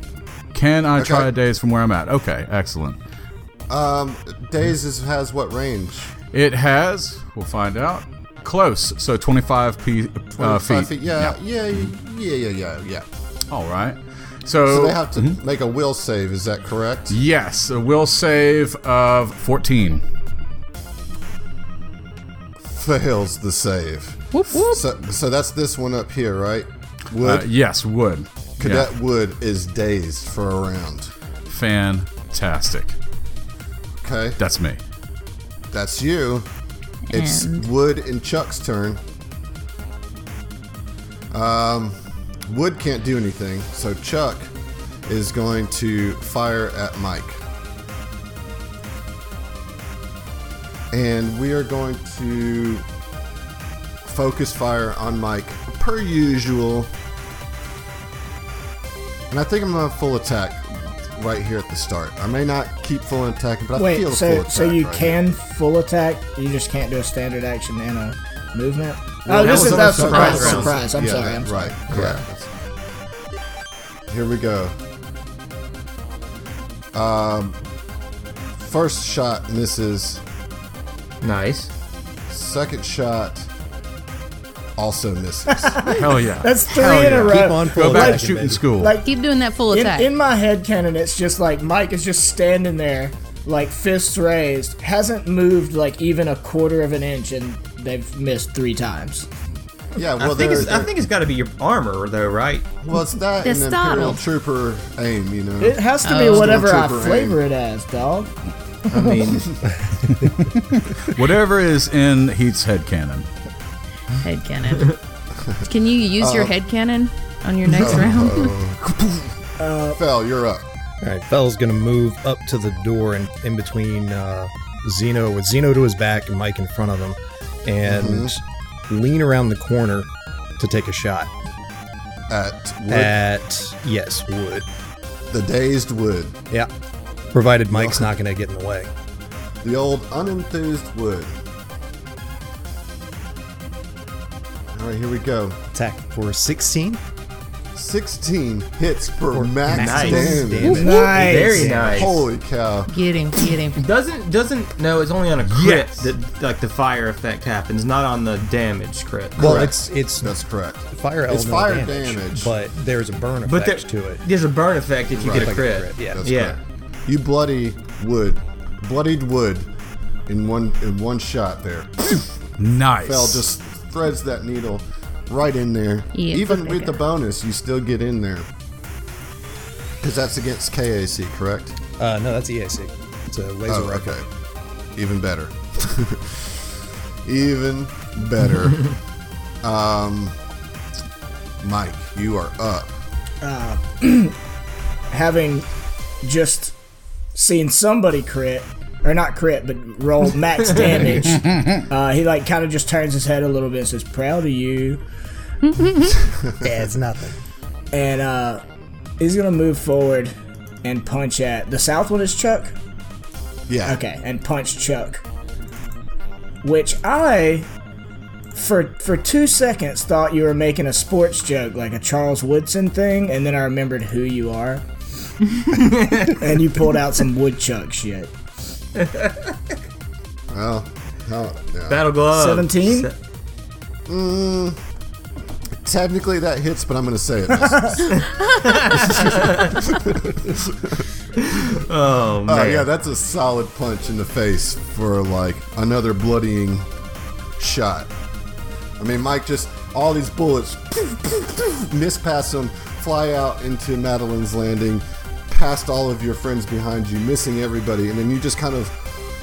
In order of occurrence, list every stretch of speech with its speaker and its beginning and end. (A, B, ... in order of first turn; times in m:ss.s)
0:00.5-0:03.0 A
0:01.0-0:01.3 B
0:03.7-0:06.1 B
0:06.3-0:11.4 A
0:10.4-0:13.0 B
0:13.5-0:15.4 A
0:14.7-0:17.2 B
0:17.1-0:20.0 A
0:22.6-0:27.5 B
0:24.3-0:24.8 C
0:27.2-0:28.9 A
0:28.6-0:31.1 B
0:31.5-0:33.0 A
0:34.0-0:34.4 B
0:34.4-0:34.8 A
0:35.7-0:36.5 B
0:37.1-0:37.7 C
0:37.1-0:39.0 B
0:41.3-0:42.0 B
0:42.5-0:44.5 B
0:45.1-0:47.4 B
0:50.9-0:52.9 B
0:54.0-0:56.9 B
0:59.3-1:05.2 B
1:03.8-1:12.0 D
1:09.3-1:12.5 B
1:09.3-1:10.8 E
1:11.9-1:12.2 E
1:14.1-1:14.8 B
1:16.9-1:17.6 B
1:18.6-1:20.2 B
1:21.2-1:21.7 E
1:22.3-1:23.5 B
1:24.8-1:25.8 B
1:25.5-1:29.1 D
1:25.9-1:29.0 A
1:26.8-1:28.7 F
1:29.0-1:30.1 C
1:29.7-1:39.3 D
1:40.0-1:40.9 B
1:40.2-1:42.7 E
1:42.8-1:47.4 B
1:43.4-1:44.2 C
1:45.6-1:48.3 D
1:46.0-1:46.6 C
1:48.9-1:49.5 E
1:48.9-1:49.4 D
1:50.7-1:53.3 A
1:54.2-1:55.0 C
1:55.6-1:58.6 C
1:56.2-1:56.5 B
1:57.7-1:59.4 B
1:59.6-2:00.0 D
1:59.9-2:00.7 B
2:01.0-2:11.3 F
2:07.8-2:08.4 B
2:12.3-2:13.1 B
2:12.9-2:14.7 F
2:15.3-2:16.4 B
2:17.3-2:18.9 F
2:17.7-2:18.1 B
2:19.6-2:21.4 B
2:24.7-2:25.6 B
2:25.7-2:27.0 F
2:27.8-2:30.9 B
2:29.3-2:32.2 F
2:29.7-2:32.1 E
2:30.6-2:31.1 C
2:30.6-2:31.9 D
2:31.9-2:32.9 B
2:32.9-2:33.8 C
2:33.8-2:39.7 E
2:35.5-2:35.9 A
2:39.4-2:40.3 F
2:39.4-2:42.5 B
2:40.9-2:44.2 F
2:43.5-2:46.6 E
2:45.2-2:46.2 F
2:45.2-2:49.7 B
2:50.3-2:52.3 B
2:52.6-2:53.4 A
2:53.0-2:58.5 B
2:56.1-2:57.0 C
3:00.0-3:01.8 B
3:02.0-3:04.2 F
3:03.7-3:04.3 B
3:05.0-3:08.9 B
3:09.6-3:10.4 B
3:11.6-3:13.0 B
3:13.4-3:14.4 D
3:15.1-3:15.7 D
3:16.2-3:16.8 D
3:17.4-3:25.0 D
3:21.5-3:21.8 A
3:25.6-3:26.2 C
3:26.6-3:27.4 F
3:27.9-3:28.6 D
3:29.2-3:30.3 D
3:30.8-3:32.7 D
3:33.7-3:34.0 B
3:33.8-3:35.2 D
3:36.6-3:37.7 D
3:38.5-3:44.9 D
3:45.7-3:48.3 D
3:45.8-3:46.3 E
3:49.0-3:49.6 E
3:50.5-3:52.1 B
3:51.9-3:53.1 E
3:52.3-3:53.1 D
3:54.1-3:54.8 B
3:55.8-3:58.3 B
3:58.2-3:59.8 E
3:58.8-4:01.0 B
4:01.4-4:02.9 E
4:02.5-4:06.9 B
4:07.6-4:08.1 B
4:09.0-4:19.0 B